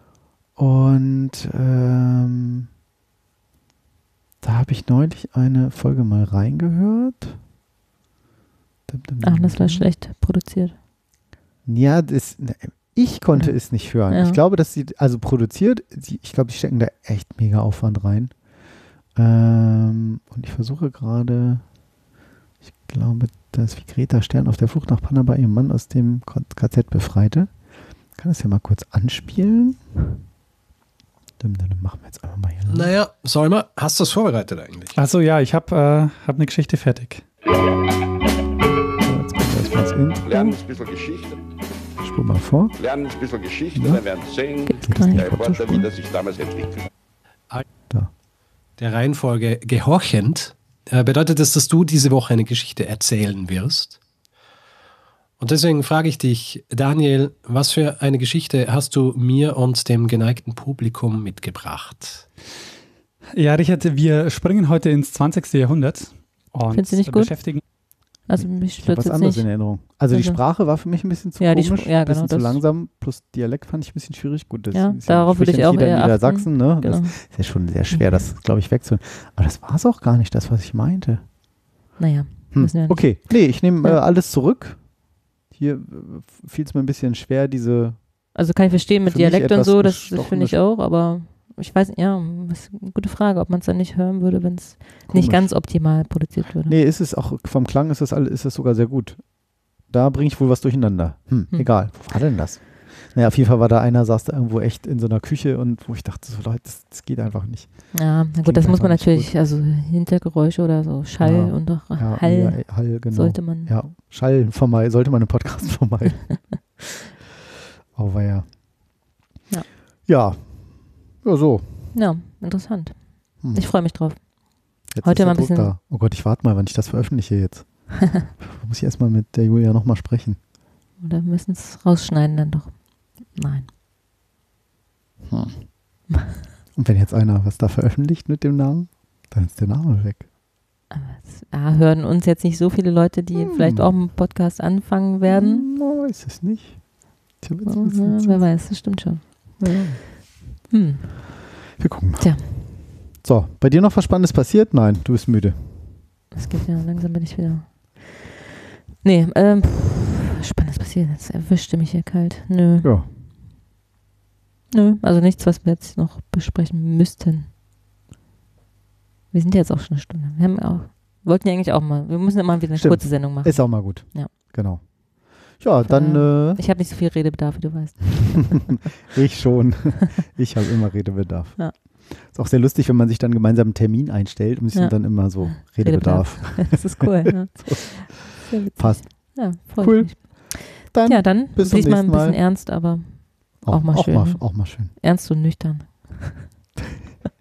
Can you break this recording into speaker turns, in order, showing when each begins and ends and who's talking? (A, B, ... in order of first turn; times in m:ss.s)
0:00.6-0:02.7 A
0:04.4-0:07.4 A
0:08.9-0:09.9 A
0:09.2-0:10.7 B
0:11.6-0:18.4 A
0:13.3-0:14.4 B
0:19.1-0:21.6 A
0:22.9-0:27.5 A
0:28.1-0:29.8 A
0:31.4-0:32.9 A
0:32.7-0:34.9 C
0:34.9-0:37.3 D
0:39.0-0:40.6 A
0:40.2-0:41.4 E
0:42.0-0:42.7 A
0:42.8-0:46.9 E
0:43.7-0:44.0 A
0:44.7-0:45.9 A
0:45.0-0:45.3 B
0:48.8-0:54.0 C
0:55.4-1:02.3 C
1:03.3-1:07.6 D
1:06.7-1:07.5 B
1:08.2-1:10.4 B
1:08.3-1:21.3 A
1:11.4-1:12.6 B
1:14.7-1:17.3 B
1:17.9-1:18.2 B
1:22.0-1:24.0 B
1:22.5-1:24.9 A
1:25.5-1:28.3 A
1:28.3-1:36.7 B
1:29.0-1:30.6 A
1:35.1-1:49.3 A
1:47.9-1:53.7 B
1:51.2-1:56.6 A
1:57.9-1:58.5 A
2:00.0-2:01.9 A
2:01.9-2:05.7 B
2:03.4-2:03.7 A
2:04.9-2:10.4 A
2:11.0-2:13.7 B
2:15.3-2:15.6 A
2:16.7-2:20.3 A
2:20.9-2:25.6 B
2:23.3-2:23.9 A
2:25.3-2:28.5 A
2:27.6-2:29.7 B
2:29.6-2:30.0 A
2:30.7-2:31.5 B
2:31.8-2:36.1 A
2:32.2-2:32.5 B
2:36.3-2:38.3 B
2:39.0-2:43.0 B
2:42.8-2:43.1 A
2:44.7-2:47.5 B
2:49.3-2:54.3 B
2:52.7-2:56.6 A
2:55.8-2:58.7 B
2:59.1-3:12.4 A
3:04.7-3:16.5 B
3:13.6-3:14.9 A